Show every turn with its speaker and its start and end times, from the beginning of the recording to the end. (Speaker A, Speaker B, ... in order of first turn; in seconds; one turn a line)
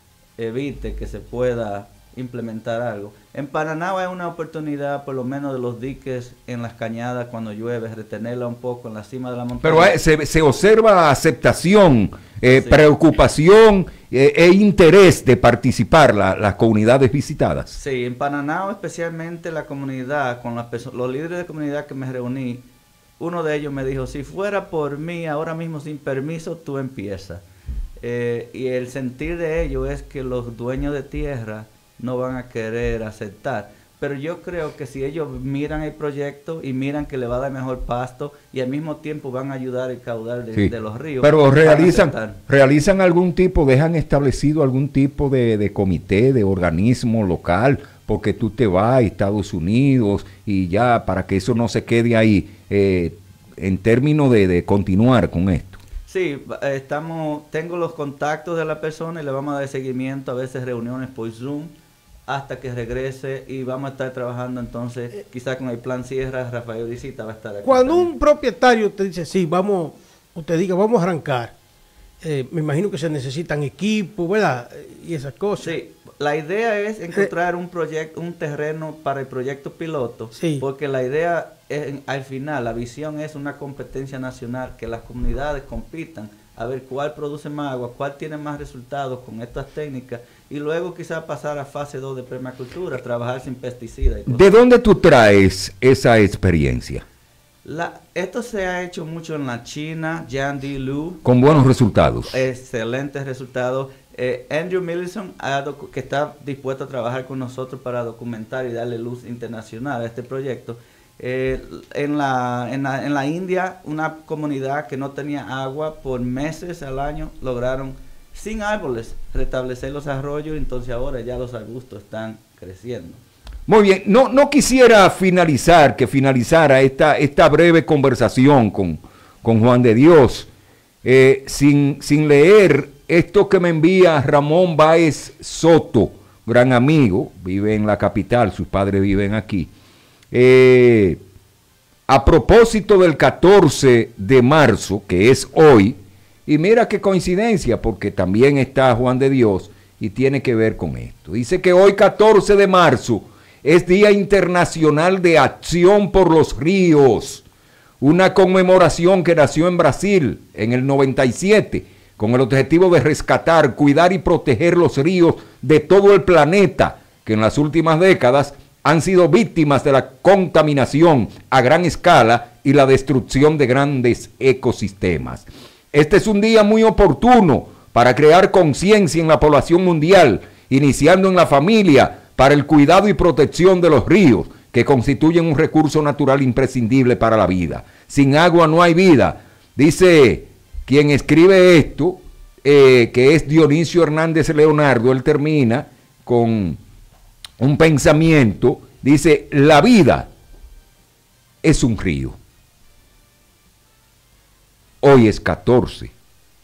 Speaker A: 0.4-9.9
Speaker B: 9.6-17.8
Speaker A: 12.5-12.8
Speaker A: 17.8-22.7
Speaker A: 23.2-27.4
Speaker A: 28.0-42.4
Speaker B: 40.5-55.8
Speaker A: 56.1-61.7
Speaker A: 62.3-68.1
Speaker C: 67.6-71.5
Speaker C: 72.2-75.7
Speaker A: 75.6-94.5
Speaker C: 80.3-80.6
Speaker B: 94.3-97.0
Speaker A: 97.6-101.2
Speaker B: 101.2-102.4
Speaker A: 102.2-123.2
Speaker B: 123.7-130.5
Speaker B: 131.0-139.7
Speaker B: 140.3-141.2
Speaker B: 142.1-157.4
Speaker B: 158.0-196.8
Speaker B: 197.6-200.3
Speaker B: 201.6-202.4
Speaker B: 205.0-206.1